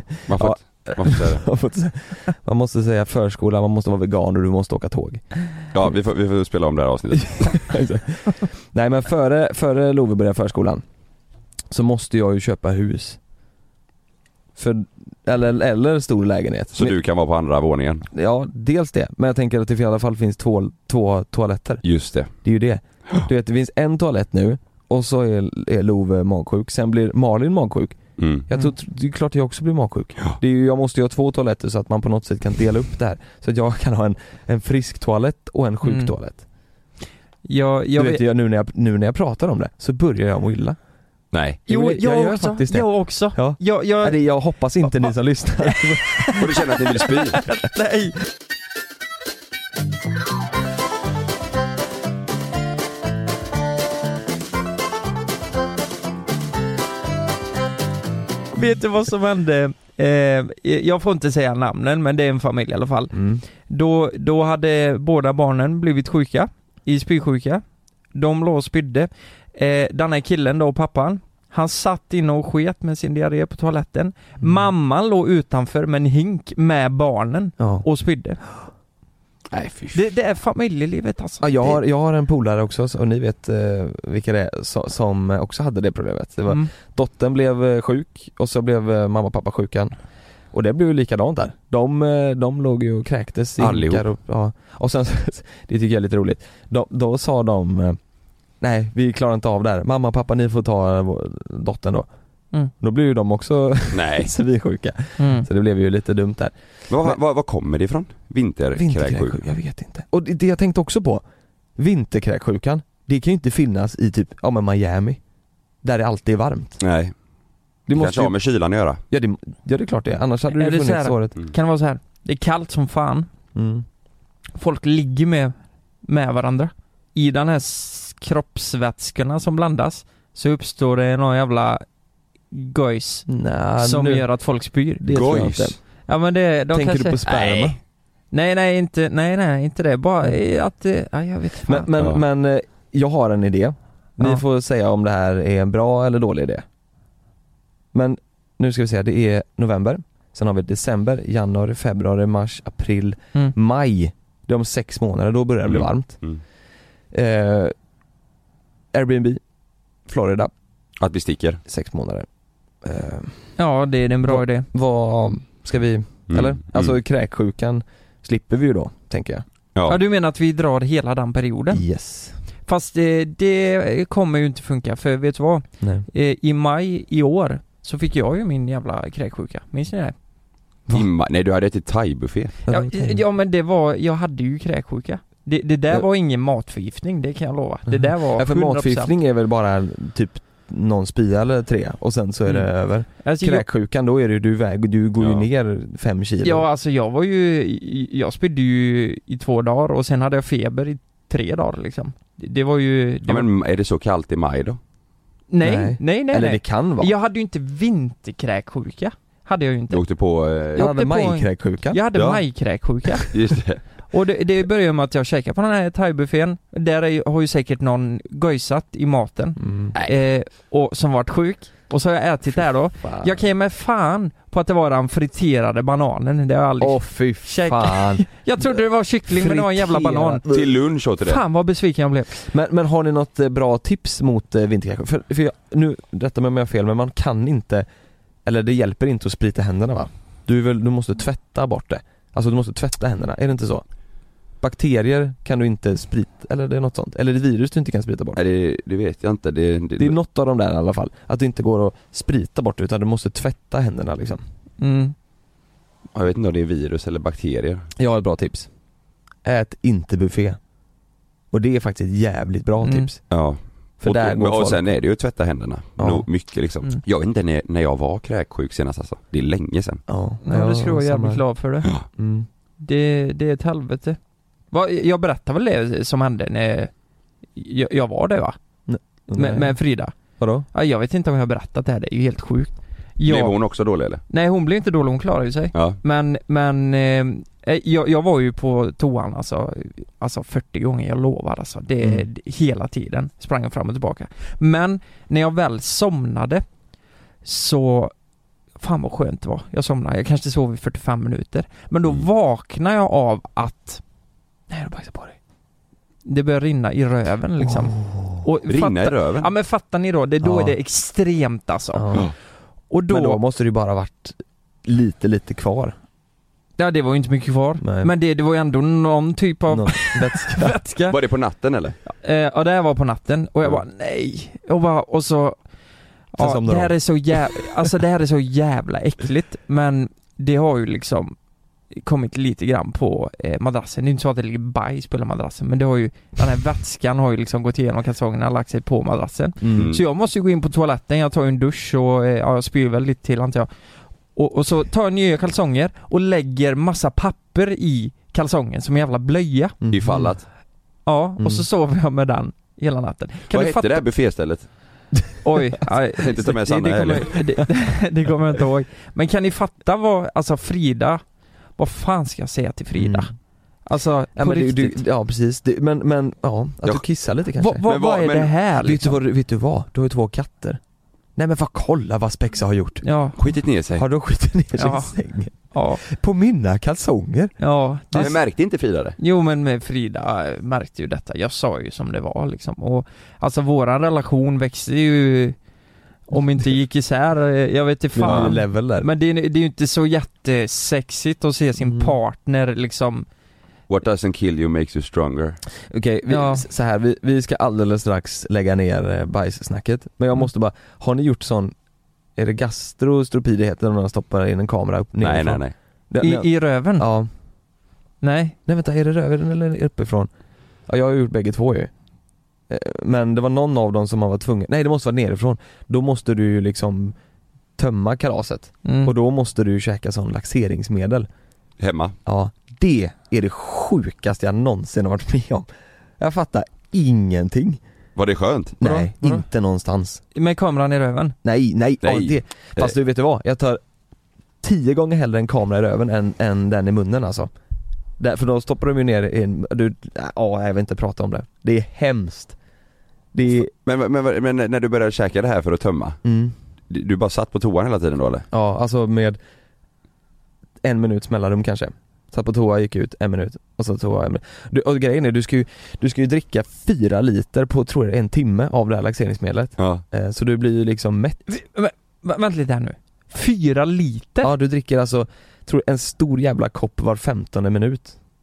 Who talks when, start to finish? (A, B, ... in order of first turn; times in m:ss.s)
0:00.2-0:01.4 A
0:00.3-0:05.2 B
0:05.7-0:07.7 A
0:07.2-0:10.8 B
0:11.7-0:13.2 B
0:14.6-0:17.0 B
0:16.7-0:18.0 A
0:18.1-0:21.8 B
0:21.8-0:22.3 A
0:22.4-0:36.4 B
0:28.2-0:28.4 A
0:35.8-0:36.1 C
0:37.4-0:38.2 C
0:38.0-0:40.8 B
0:41.3-0:41.6 A
0:41.7-0:46.4 B
0:41.7-0:44.2 C
0:45.7-0:46.4 C
0:46.4-0:47.4 A
0:47.0-0:48.1 C
0:58.5-1:07.6 C
1:03.1-1:03.4 B
1:08.1-1:18.4 C
1:14.4-1:14.7 B
1:17.6-1:17.8 B
1:19.5-1:20.0 A
1:19.9-1:21.8 C
1:21.4-1:29.9 B
1:30.5-1:38.0 B
1:33.6-1:34.0 A
1:38.6-1:42.1 B
1:42.8-1:47.2 B
1:43.9-1:44.3 A
1:45.2-1:45.5 C
1:46.9-1:49.4 A
1:48.7-1:51.2 B
1:51.8-1:55.2 B
1:55.8-1:56.8 B
1:56.8-1:57.1 A
1:57.9-1:58.4 B
1:57.9-1:59.0 A
1:59.1-2:01.4 B
2:00.5-2:03.3 C
2:03.5-2:03.8 B
2:04.6-2:05.5 C
2:06.0-2:11.8 C
2:12.5-2:13.3 C
2:13.3-2:14.3 B
2:13.8-2:15.0 C
2:15.0-2:15.8 B
2:15.1-2:15.8 A
2:16.1-2:17.2 C
2:16.7-2:17.8 B
2:17.2-2:17.7 A
2:18.3-2:21.9 C
2:21.6-2:26.6 B
2:27.9-2:36.2 B
2:35.6-2:36.4 A
2:37.1-2:37.7 B
2:38.9-2:39.4 B
2:40.1-2:40.5 B
2:41.0-2:41.6 A
2:41.6-2:42.3 B
2:42.8-2:43.4 B
2:43.6-2:44.6 C
2:44.2-2:49.4 B
2:46.3-2:46.9 A
2:49.9-2:51.8 C
2:51.7-2:52.4 B
2:52.6-3:00.1 C
2:55.8-2:56.0 B
3:00.9-3:02.6 A
3:02.6-3:03.2 B
3:02.7-3:09.1 C
3:07.9-3:16.6 B
3:13.2-3:13.6 C
3:15.2-3:15.4 A
3:16.4-3:23.5 C
3:23.3-3:24.8 A
3:25.5-3:30.0 C
3:25.6-3:27.1 B
3:29.9-3:30.8 A
3:30.8-3:32.0 B
3:30.8-3:33.3 C
3:32.1-3:32.4 A
3:33.3-3:33.8 A
3:34.1-3:50.4 C
3:39.6-3:39.9 B
3:43.0-3:43.4 B
3:46.8-3:50.7 B
3:50.5-3:51.4 A
3:51.2-3:52.3 C
3:52.3-3:57.8 B
3:58.4-4:03.8 B
4:04.6-4:08.4 B
4:08.4-4:10.2 A
4:10.0-4:14.4 B
4:14.8-4:15.1 C
4:16.1-4:17.9 A
4:18.0-4:18.7 B
4:19.4-4:20.6 B
4:21.5-4:23.2 B
4:22.8-4:23.1 C
4:23.3-4:30.0 A
4:24.0-4:24.8 B
4:26.0-4:26.2 B
4:30.1-4:31.4 B
4:30.4-4:31.9 C
4:32.2-4:32.5 B
4:32.8-4:34.2 C
4:34.7-4:36.9 C
4:37.5-4:38.6 C
4:38.9-4:39.8 B
4:39.3-4:40.2 C
4:40.4-4:40.7 B
4:40.7-4:43.6 C
4:43.2-4:44.2 A
4:44.3-4:56.6 C
4:45.7-4:46.0 A
4:57.4-4:58.1 C
4:58.8-5:04.0 C
5:04.7-5:05.3 B
5:06.2-5:12.2 C
5:07.6-5:08.4 B
5:08.7-5:09.5 A
5:10.4-5:10.7 B
5:11.9-5:12.3 B
5:12.9-5:13.4 C
5:13.1-5:16.0 B
5:16.8-5:21.1 C
5:17.8-5:18.1 B
5:19.7-5:20.8 B
5:21.1-5:22.0 A
5:22.1-5:25.6 C
5:26.3-5:31.4 C
5:26.4-5:27.0 B
5:32.0-5:43.7 C
5:39.6-5:39.9 B
5:39.7-5:40.0 A
5:44.3-5:49.8 C
5:49.8-5:50.3 B
5:49.9-5:50.4 A
5:51.0-5:54.0 C
5:51.4-5:51.6 B
5:53.5-5:54.7 A
5:55.4-6:01.2 C
5:56.1-5:57.4 A
6:01.8-6:03.3 C
6:02.9-6:03.3 B
6:03.8-6:05.0 C
6:04.4-6:07.8 B
6:07.6-6:09.2 C
6:07.8-6:08.5 A
6:08.8-6:10.8 B
6:11.4-6:13.0 B
6:13.0-6:13.4 C
6:13.4-6:14.1 A
6:13.9-6:17.5 B
6:14.8-6:15.1 C
6:15.7-6:16.0 C
6:17.6-6:18.4 C
6:18.2-6:19.2 A
6:19.2-6:25.6 C
6:26.3-6:33.2 C
6:28.1-6:29.1 B
6:28.2-6:28.5 A
6:31.8-6:32.1 B
6:33.9-6:35.6 A
6:35.9-6:41.7 B
6:36.3-6:36.6 C
6:42.4-6:47.3 B
6:45.2-6:45.7 A
6:46.2-6:47.0 C
6:48.2-6:48.6 C
6:48.6-6:50.3 B
6:50.9-6:51.9 B
6:52.7-6:57.2 B
6:57.8-7:01.3 B
6:58.8-6:59.1 C
7:01.8-7:02.1 A
7:02.2-7:05.7 B
7:06.2-7:07.8 B
7:08.2-7:08.8 A
7:08.8-7:10.2 B
7:08.8-7:09.4 C
7:10.3-7:11.3 C
7:11.4-7:13.8 B
7:12.0-7:12.9 A
7:14.6-7:17.5 B
7:18.2-7:22.6 B
7:23.3-7:23.7 B
7:23.8-7:26.2 A
7:26.2-7:26.5 B
7:26.9-7:28.4 A
7:28.5-7:29.4 B
7:30.8-7:41.5 B
7:41.5-7:44.5 C
7:44.4-7:48.2 B